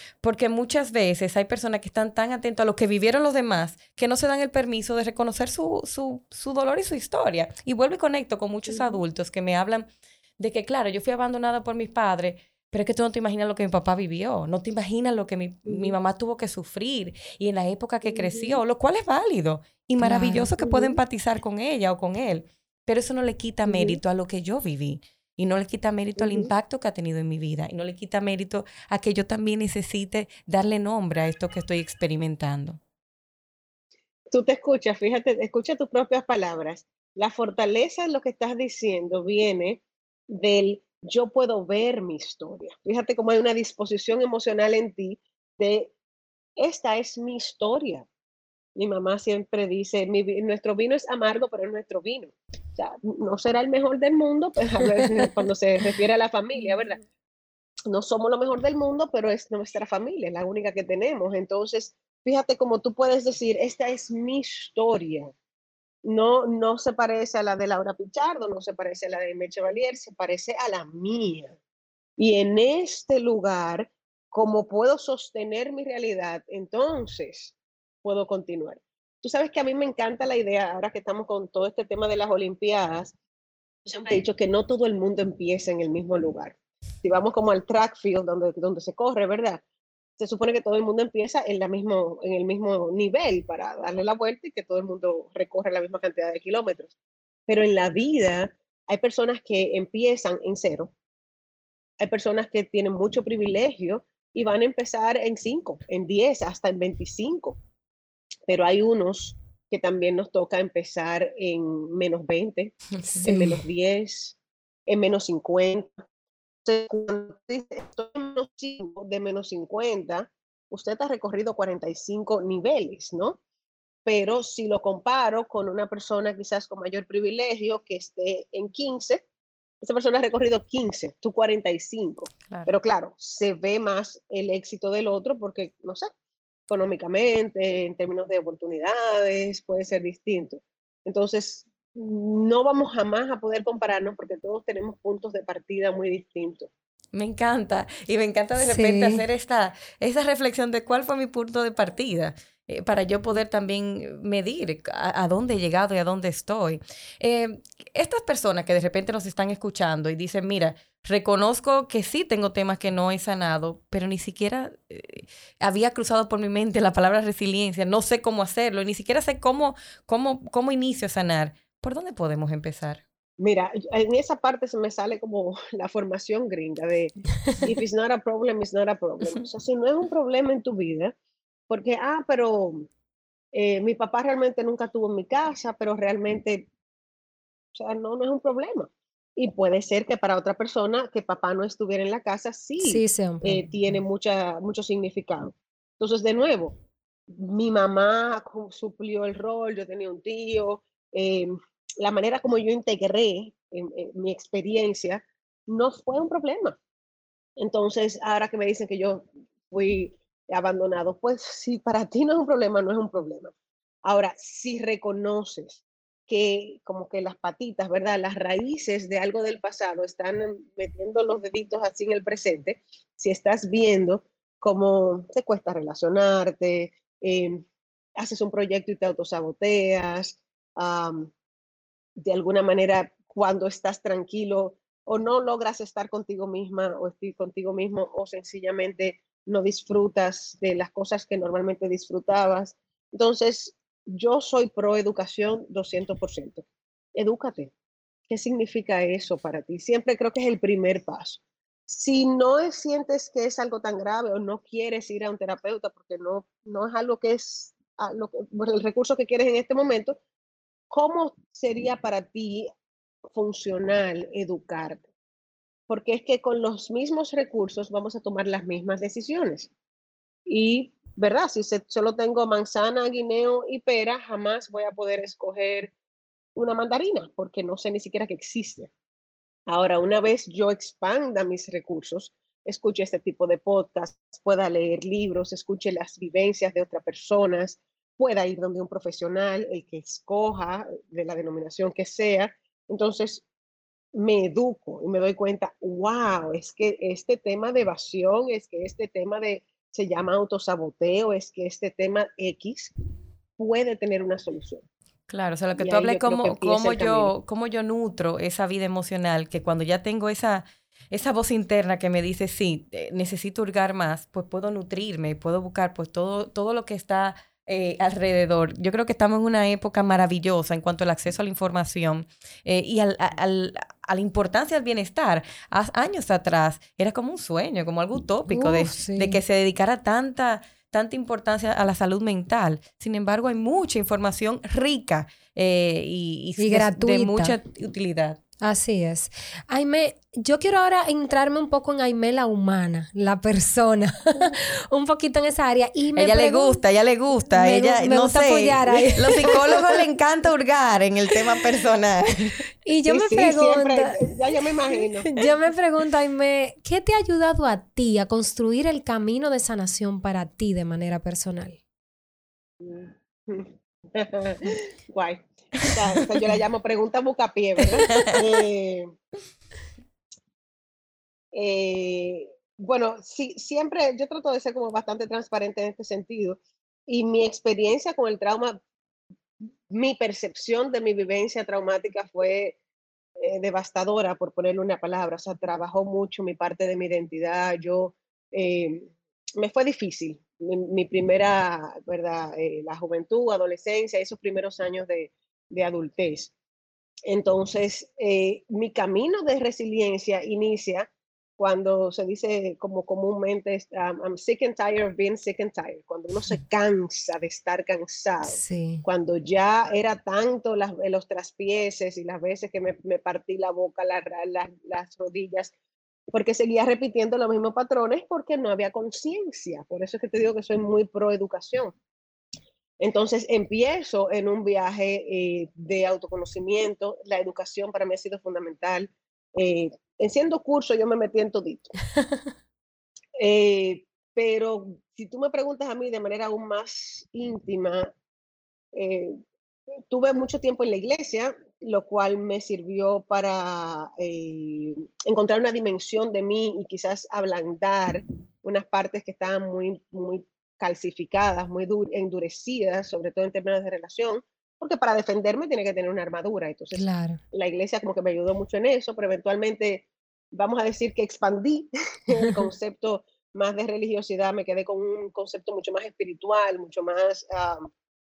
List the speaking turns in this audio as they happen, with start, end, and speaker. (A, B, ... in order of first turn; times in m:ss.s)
0:00.2-0:09.9 A
0:08.7-0:09.0 B
0:10.4-0:32.8 A
0:15.7-0:16.0 B
0:18.0-0:18.6 B
0:20.0-0:20.5 C
0:20.6-0:21.0 B
0:23.6-0:24.0 B
0:26.2-0:26.5 B
0:34.3-0:45.9 B
0:46.6-0:48.1 B
0:48.8-0:57.0 B
0:57.9-1:05.3 B
1:06.0-1:11.6 B
1:12.2-1:23.1 B
1:23.8-1:29.6 B
1:30.2-1:36.9 B
1:37.5-1:40.9 B
1:42.0-1:47.6 B
1:48.5-1:54.4 B
1:53.1-1:53.6 C
1:54.9-1:56.0 B
1:56.6-2:03.4 B
2:04.1-2:09.2 B
2:09.8-2:16.1 B
2:16.7-2:26.7 B
2:27.1-2:53.0 A
2:28.6-2:29.3 C
2:53.4-3:01.1 B
3:01.7-3:02.9 B
3:03.5-3:06.7 B
3:07.7-3:16.8 B
3:12.8-3:13.7 C
3:17.3-3:26.8 B
3:27.6-3:33.5 B
3:34.0-3:51.3 B
3:52.2-4:07.7 B
4:08.3-4:20.2 B
4:20.9-4:22.7 B
4:23.3-4:25.0 B
4:25.9-4:29.7 B
4:30.5-4:35.9 B
4:36.6-4:38.9 B
4:39.7-4:53.4 B
4:54.1-5:02.9 B
5:03.6-5:04.8 B
5:05.3-5:38.4 A
5:05.8-5:07.3 B
5:28.5-5:29.4 C
5:36.6-5:37.6 C
5:38.6-5:46.8 C
5:46.2-5:52.6 A
5:47.5-5:49.8 C
5:52.8-5:54.2 C
5:53.1-5:55.3 B
5:55.4-6:01.8 C
6:02.8-6:09.1 B
6:11.5-6:18.8 B
6:19.9-6:22.8 B
6:23.4-6:36.5 B
6:37.3-6:55.7 B
6:48.4-6:49.0 C
6:56.3-7:02.0 B
7:03.0-7:11.9 B
7:13.4-7:18.1 B
7:18.9-7:19.4 B
7:20.0-7:47.9 B
7:36.9-7:37.4 C